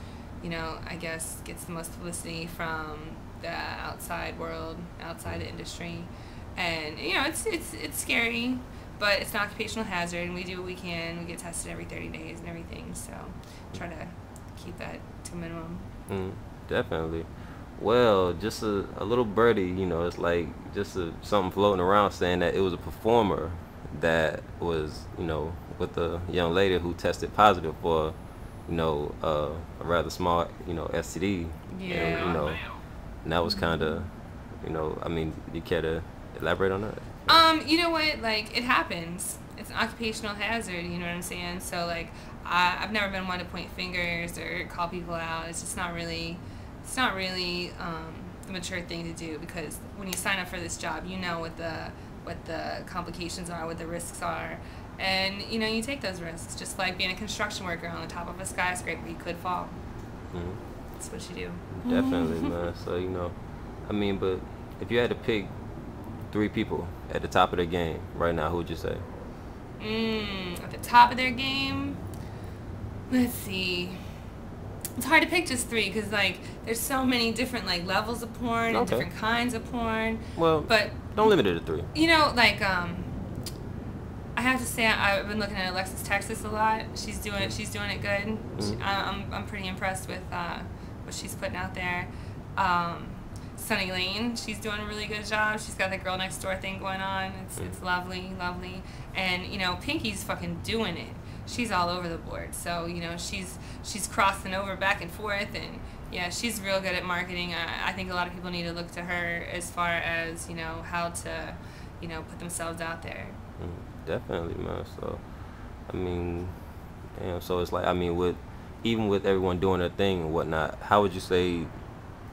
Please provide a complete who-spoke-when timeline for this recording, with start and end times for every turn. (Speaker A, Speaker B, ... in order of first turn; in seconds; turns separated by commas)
Speaker A: 0.4-15.9, Speaker B: 16.1-37.4, Speaker A: 31.7-32.7, Speaker A: 33.4-34.1, Speaker A: 37.3-59.8, Speaker B: 60.3-60.6, Speaker A: 61.0-62.6, Speaker B: 61.8-65.5, Speaker B: 66.3-69.0, Speaker A: 69.8-72.0, Speaker A: 73.1-74.0, Speaker A: 75.0-83.2, Speaker B: 78.7-79.1, Speaker B: 80.3-81.9, Speaker A: 84.3-113.4, Speaker B: 88.5-88.8, Speaker B: 113.6-121.7